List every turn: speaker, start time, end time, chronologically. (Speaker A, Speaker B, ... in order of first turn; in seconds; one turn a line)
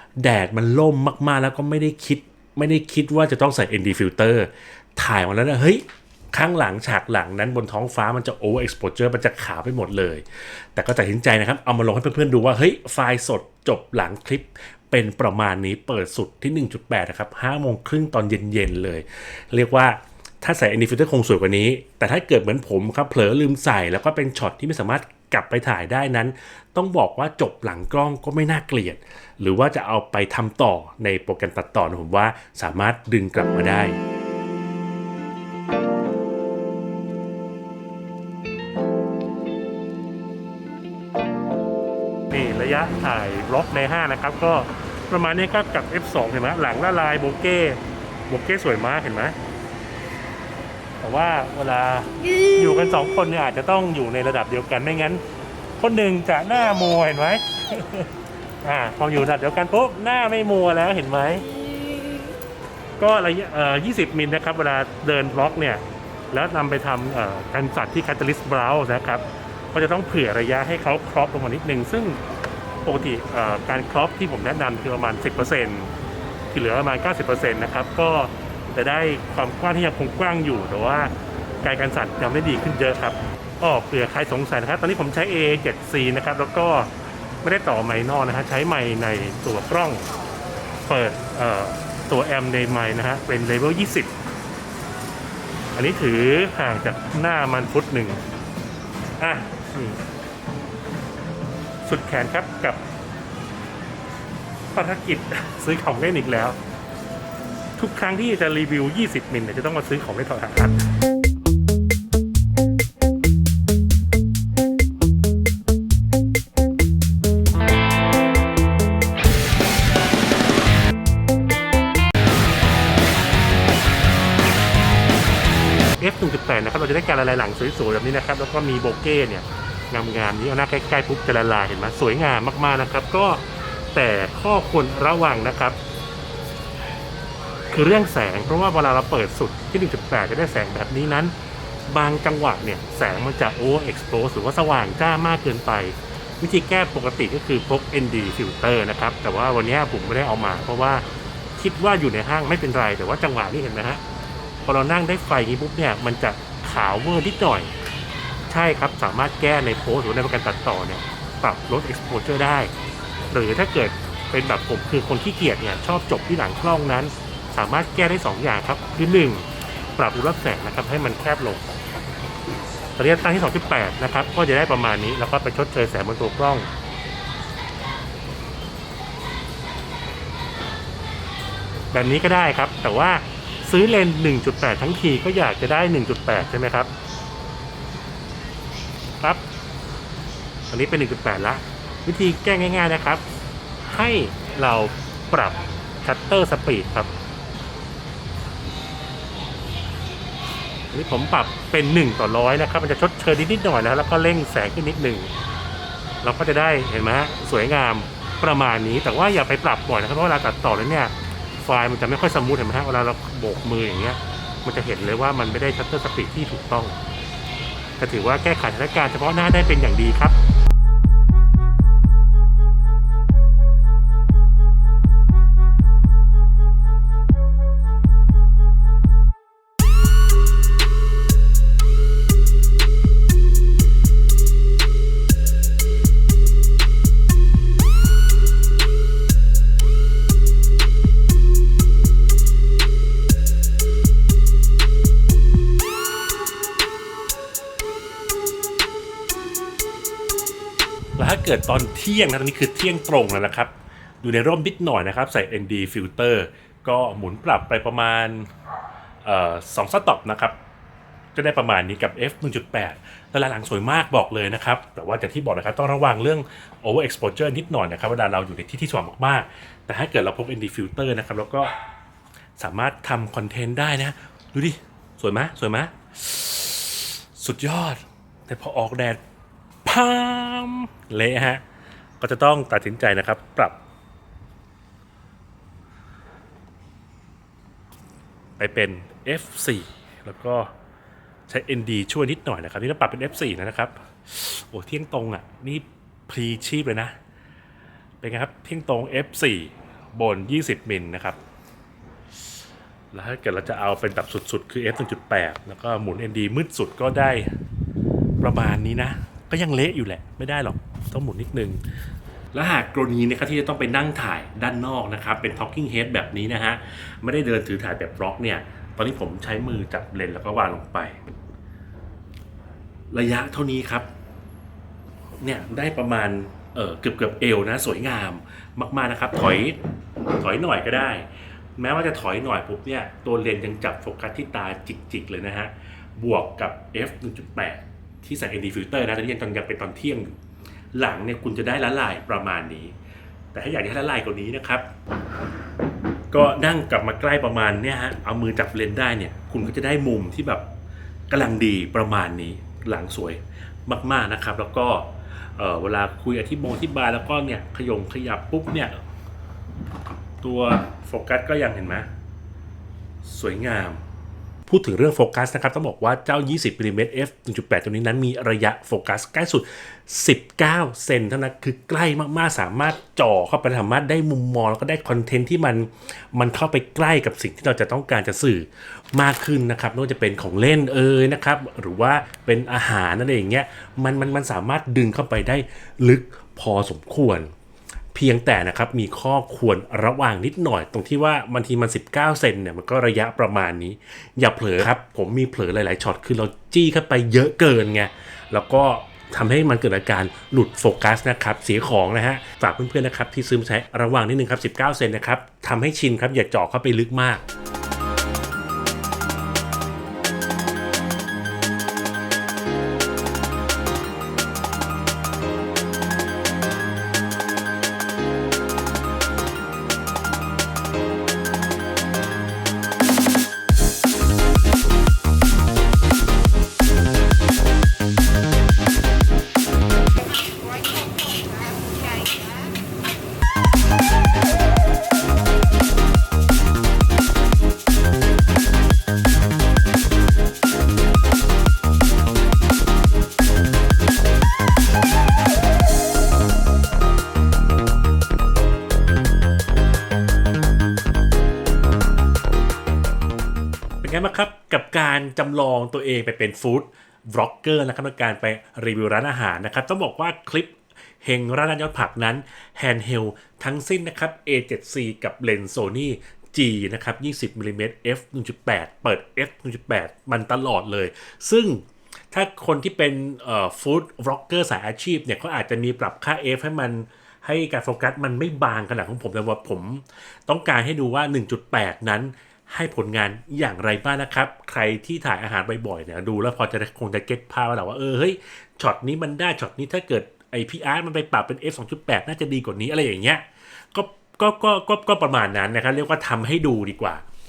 Speaker A: 0.2-34.0
Speaker A: 42.3-49.4
Speaker A: 51.0-55.2
Speaker A: 55.8-58.1
Speaker A: 58.6-62.3
Speaker A: 63.0-72.2
Speaker A: 72.8-75.9
Speaker A: 76.5-86.9
Speaker A: 87.4-90.0
Speaker A: 90.8-94.1
Speaker A: 95.7-98.2
Speaker A: 99.2-100.0
Speaker A: 101.8-102.8
Speaker A: 104.7-106.6
Speaker A: 107.8-110.9
Speaker A: 126.0-135.8
Speaker A: 137.7-141.3
Speaker A: 141.9-151.0
Speaker A: 151.6-154.0
Speaker A: 154.6-157.7
Speaker A: 158.5-162.7
Speaker A: 163.3-171.7
Speaker A: 173.0-176.7
Speaker A: 181.9-186.9
Speaker A: 190.7-193.2
Speaker A: 193.8-197.1
Speaker A: 200.9-205.3
Speaker A: 206.2-217.0
Speaker A: 218.0-220.3
Speaker A: 251.2-258.5
Speaker A: 259.2-260.6
Speaker A: 261.3-271.8
Speaker A: 272.6-279.2
Speaker A: 279.8-281.6
Speaker A: 282.2-283.8
Speaker A: 288.6-290.7
Speaker A: 291.5-297.1
Speaker A: 298.2-301.4
Speaker A: 303.1-307.5
Speaker A: 308.4-311.8
Speaker A: 312.5-321.2
Speaker A: 323.1-324.1
Speaker A: 325.4-329.8
Speaker A: 330.3-340.3
Speaker A: 340.9-342.9
Speaker A: 343.5-344.9
Speaker A: 346.3-350.7
Speaker A: 351.3-358.9
Speaker A: 360.4-362.1
Speaker A: 363.2-364.0
Speaker A: 364.7-387.5
Speaker A: 388.1-407.4
Speaker A: 454.0-497.2